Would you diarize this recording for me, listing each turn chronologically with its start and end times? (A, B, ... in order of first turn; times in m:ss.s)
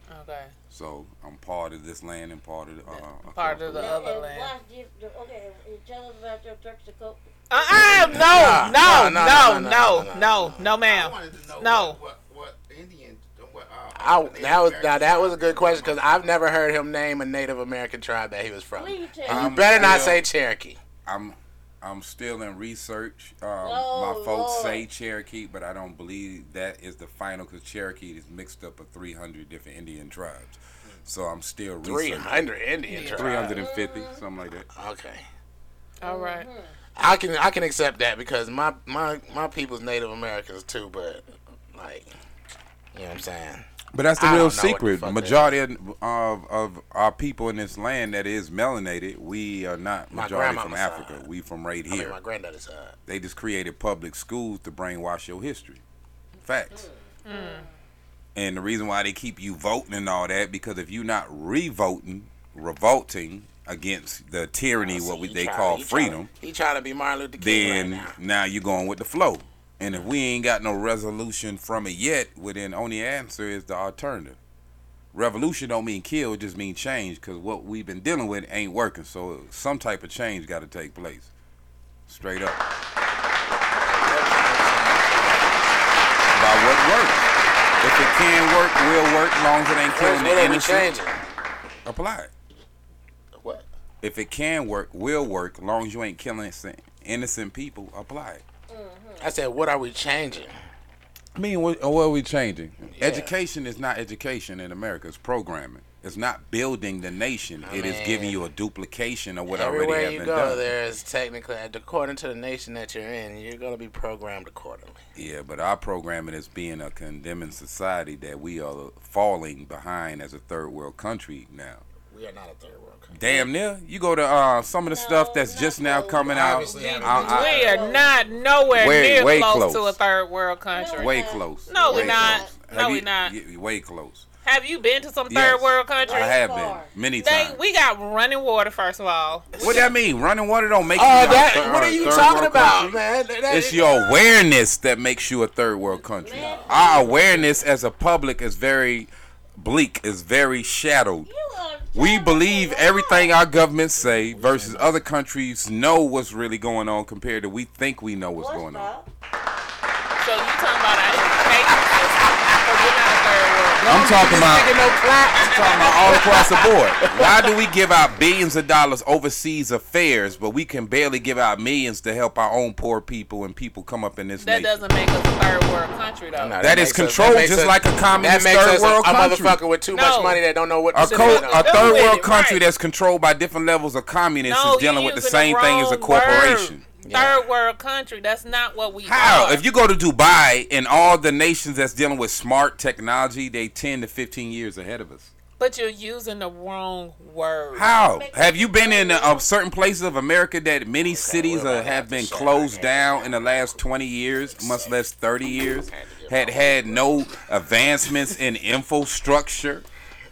0:00.1-0:00.5 A
0:00.7-0:04.0 B
0:02.9-0:04.5 A
0:03.7-0:07.2 C
0:07.5-0:12.0 A
0:07.7-0:10.7 D
0:10.8-0:16.3 E
0:14.0-0:20.8 D
0:18.8-0:19.8 C
0:19.3-0:20.2 B
0:21.1-0:32.5 B
0:23.6-0:24.9 C
0:31.8-0:33.6 D
0:32.9-0:33.3 A
0:33.1-0:34.7 B
0:33.5-0:34.2 C
0:34.7-0:35.3 D
0:36.0-0:36.5 A
0:36.0-0:36.7 C
0:37.0-0:42.1 D
0:42.9-0:43.7 D
0:43.9-0:52.2 B
0:44.2-0:45.5 D
0:50.1-0:51.2 D
0:51.9-0:53.0 D
0:53.1-0:55.8 B
0:56.4-0:56.9 B
0:56.8-0:57.7 C
0:57.2-0:57.7 A
0:58.4-1:06.3 B
1:04.8-1:08.1 D
1:07.4-1:14.4 B
1:15.1-1:21.3 B
1:22.1-1:22.6 B
1:23.8-1:26.0 D
1:26.3-1:30.9 B
1:29.9-1:31.2 D
1:31.8-1:32.3 B
1:33.4-1:33.6 D
1:34.0-1:38.4 B
1:38.7-1:39.3 C
1:39.2-1:40.5 D
1:41.4-1:50.7 B
1:42.9-1:43.3 D
1:47.6-1:48.4 D
1:49.5-1:55.0 D
1:55.2-2:01.8 B
2:02.1-2:03.2 D
2:03.1-2:07.7 B
2:04.8-2:08.5 C
2:06.1-2:08.0 E
2:07.1-2:13.4 A
2:08.7-2:10.0 B
2:10.7-2:12.5 C
2:11.0-2:14.3 B
2:14.4-2:16.4 A
2:15.3-2:17.6 B
2:16.0-2:16.9 C
2:17.2-2:19.9 A
2:19.5-2:19.9 D
2:19.6-2:31.3 B
2:20.9-2:24.1 D
2:26.1-2:27.5 C
2:26.3-2:27.1 E
2:31.2-2:33.4 C
2:31.9-2:38.9 B
2:34.0-2:35.0 E
2:38.4-2:39.1 C
2:40.2-2:44.3 A
2:43.8-2:46.7 D
2:43.8-2:44.8 B
2:45.3-2:46.7 A
2:45.4-2:54.8 B
2:54.4-2:56.6 A
2:56.3-3:02.1 D
2:56.6-2:59.6 B
2:59.9-3:00.4 A
3:00.9-3:06.8 B
3:01.0-3:02.6 A
3:04.4-3:09.6 A
3:07.0-3:07.4 D
3:09.0-3:15.3 B
3:15.6-3:17.9 A
3:17.7-3:29.9 B
3:17.9-3:19.5 C
3:21.0-3:23.8 D
3:24.4-3:25.0 D
3:25.7-3:27.3 D